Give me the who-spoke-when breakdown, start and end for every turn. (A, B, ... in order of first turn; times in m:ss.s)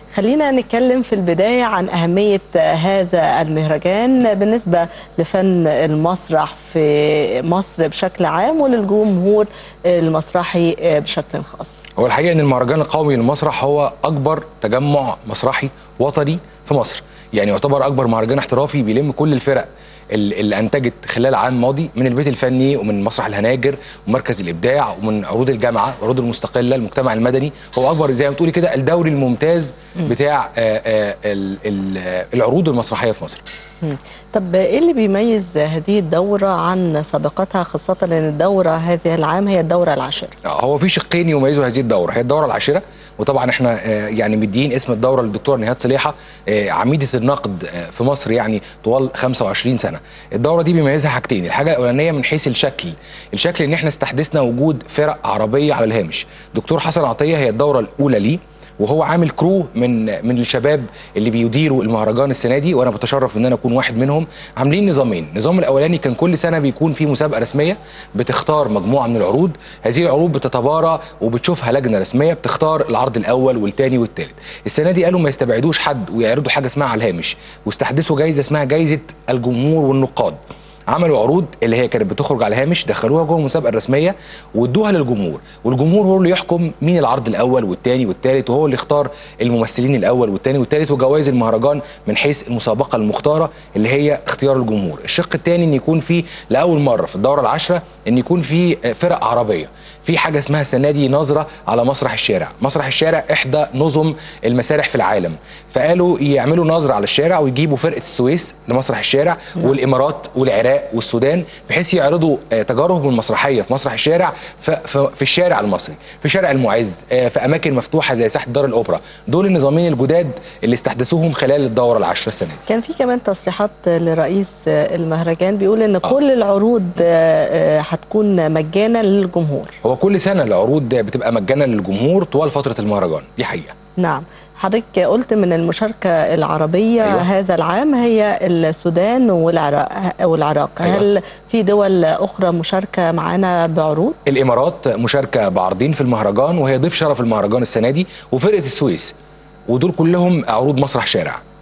0:00.1-0:11.8 A
0:12.0-0:33.4 B
0:33.8-0:40.3 A
0:40.4-1:20.4 B
1:20.9-2:02.6 B
2:02.7-2:09.8 A
2:09.8-2:13.7 B
2:14.0-2:24.2 A
2:24.3-2:29.1 B
2:29.7-2:31.4 B